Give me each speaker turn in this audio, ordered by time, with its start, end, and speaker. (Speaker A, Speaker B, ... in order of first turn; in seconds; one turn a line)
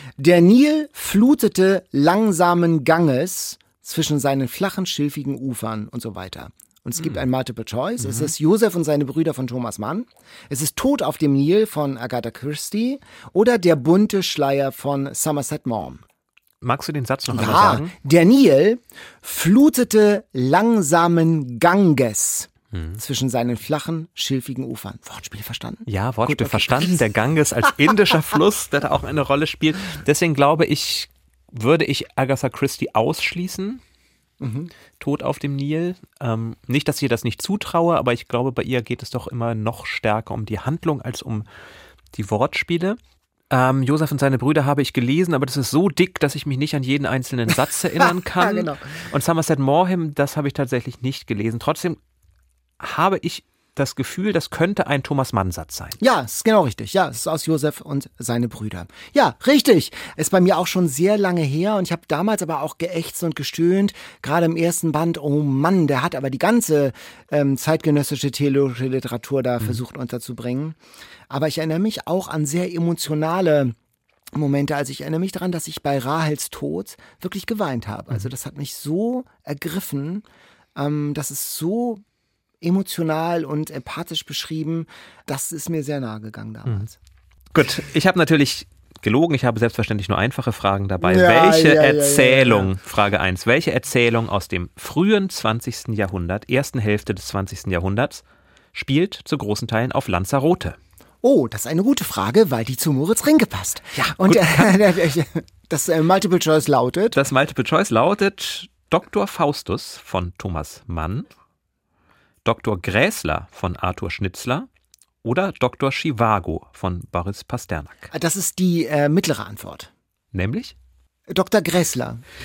Speaker A: 0.2-16.0
Speaker B: 8.0-8.3
Speaker B: 16.6-17.9
Speaker A: 17.3-27.1
Speaker B: 22.7-23.0
Speaker B: 25.9-33.8
Speaker A: 34.4-34.7
Speaker B: 35.0-41.5
Speaker B: 42.1-43.0
Speaker B: 43.5-52.0
Speaker A: 48.0-48.9
Speaker B: 52.8-56.0
Speaker A: 56.0-70.8
Speaker A: 71.3-73.7
Speaker A: 74.3-80.2
Speaker A: 80.8-82.0
Speaker A: 82.6-87.0
Speaker B: 87.5-98.2
Speaker A: 91.0-92.7
Speaker B: 98.7-100.8
Speaker A: 101.2-107.2
Speaker B: 104.2-104.8
Speaker B: 107.1-111.3
Speaker B: 112.4-114.7
Speaker B: 115.2-118.1
Speaker A: 118.1-119.9
Speaker B: 120.3-120.7
Speaker A: 121.3-122.2